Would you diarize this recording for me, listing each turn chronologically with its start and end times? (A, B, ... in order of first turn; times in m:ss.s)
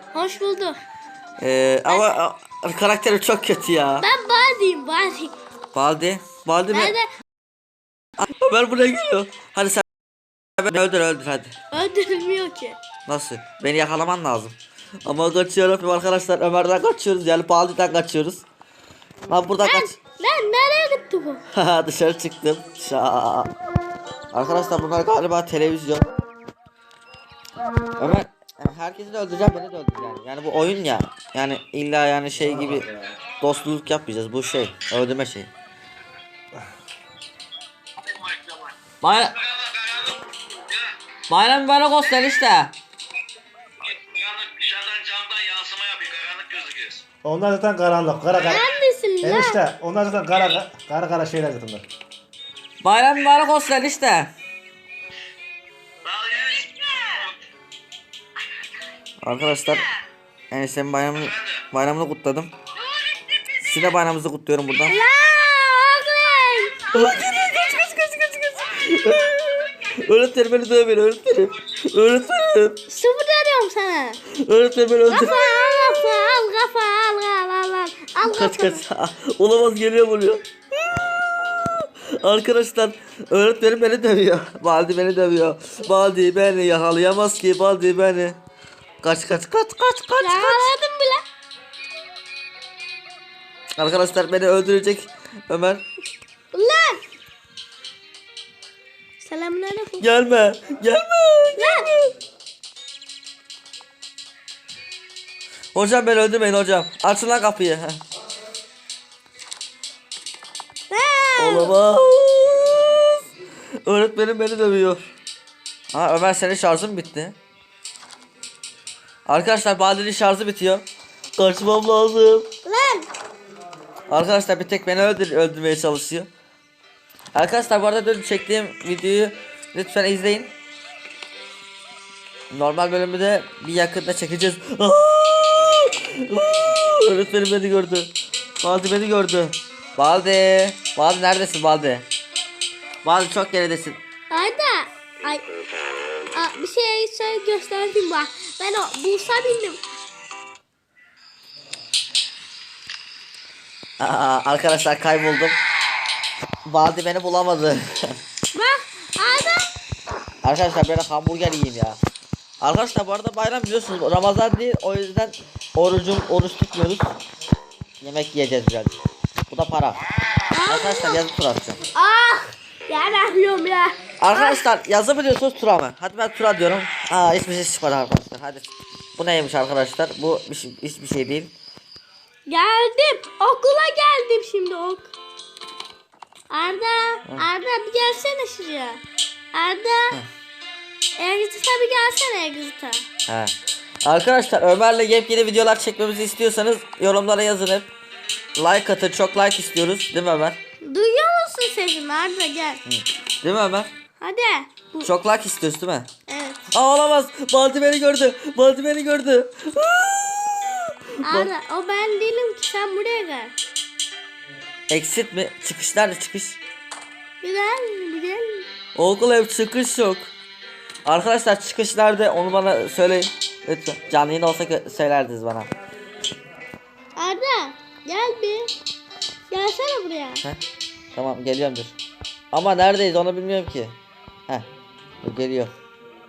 0:00.1-0:00.8 A
0:01.4-0:04.1 B
0:01.9-0:02.2 A
0:04.0-0:05.3 A
0:05.7-0:06.9 B
0:06.7-0:07.1 A
0:08.2-0:09.8 B
0:10.6-0:11.6 B
0:11.7-0:12.8 A
0:13.0-0:18.4 B
0:19.3-0:19.9 B
0:19.6-0:21.4 A
0:21.5-0:23.5 B
0:24.3-0:26.1 B
0:28.0-0:32.9 B
0:33.4-0:35.5 B
0:38.1-0:38.7 C
0:39.0-0:39.6 B
0:39.5-0:40.9 C
0:41.3-0:42.7 B
0:43.8-0:47.0 C
0:47.2-0:48.6 D
0:48.3-0:49.6 A
0:49.2-0:51.8 D
0:52.8-0:54.3 B
0:56.0-0:57.4 C
0:59.2-0:59.9 B
1:00.5-1:02.5 B
1:03.6-1:05.0 B
1:04.9-1:06.9 A
1:06.9-1:12.8 B
1:12.9-1:14.2 A
1:14.3-1:16.4 B
1:15.1-1:18.8 A
1:18.2-1:28.4 B
1:29.0-1:30.7 B
1:30.2-1:31.2 A
1:33.8-1:35.8 B
1:36.5-1:37.0 A
1:39.2-1:40.0 A
1:40.0-1:42.1 B
1:41.6-1:42.0 A
1:45.7-1:48.0 B
1:50.9-1:51.8 A
1:51.4-1:53.1 B
1:53.8-1:55.0 B
1:55.9-1:57.4 B
1:59.3-2:00.8 B
2:01.4-2:02.5 B
2:02.6-2:03.1 A
2:04.1-2:06.3 B
2:07.3-2:10.5 B
2:12.5-2:22.0 B
2:23.0-2:24.0 B
2:24.3-2:25.4 A
2:26.3-2:29.8 A
2:34.0-2:35.6 B
2:36.6-2:38.1 B
2:38.5-2:39.7 A
2:40.4-2:42.0 B
2:42.6-2:47.2 B
2:48.0-2:48.9 B
2:49.5-2:50.0 B
2:50.5-2:51.2 A
2:50.7-2:51.8 B
2:51.9-2:54.6 A
2:54.2-3:01.5 B
3:02.5-3:05.1 A
3:06.5-3:09.0 A
3:09.5-3:10.2 A
3:11.2-3:13.0 A
3:13.3-3:17.9 B
3:18.6-3:20.6 B
3:20.8-3:22.8 A
3:22.8-3:23.9 B
3:24.2-3:25.1 A
3:25.0-3:26.1 B
3:26.3-3:26.6 A
3:26.7-3:31.5 B
3:31.2-3:33.6 A
3:34.9-3:36.6 B
3:37.4-3:38.7 A
3:39.0-3:40.3 B
3:41.0-3:45.7 B
3:47.2-3:48.7 A
3:49.5-3:50.4 A
3:51.1-3:52.0 B
3:52.5-3:54.0 B
3:55.2-3:55.7 B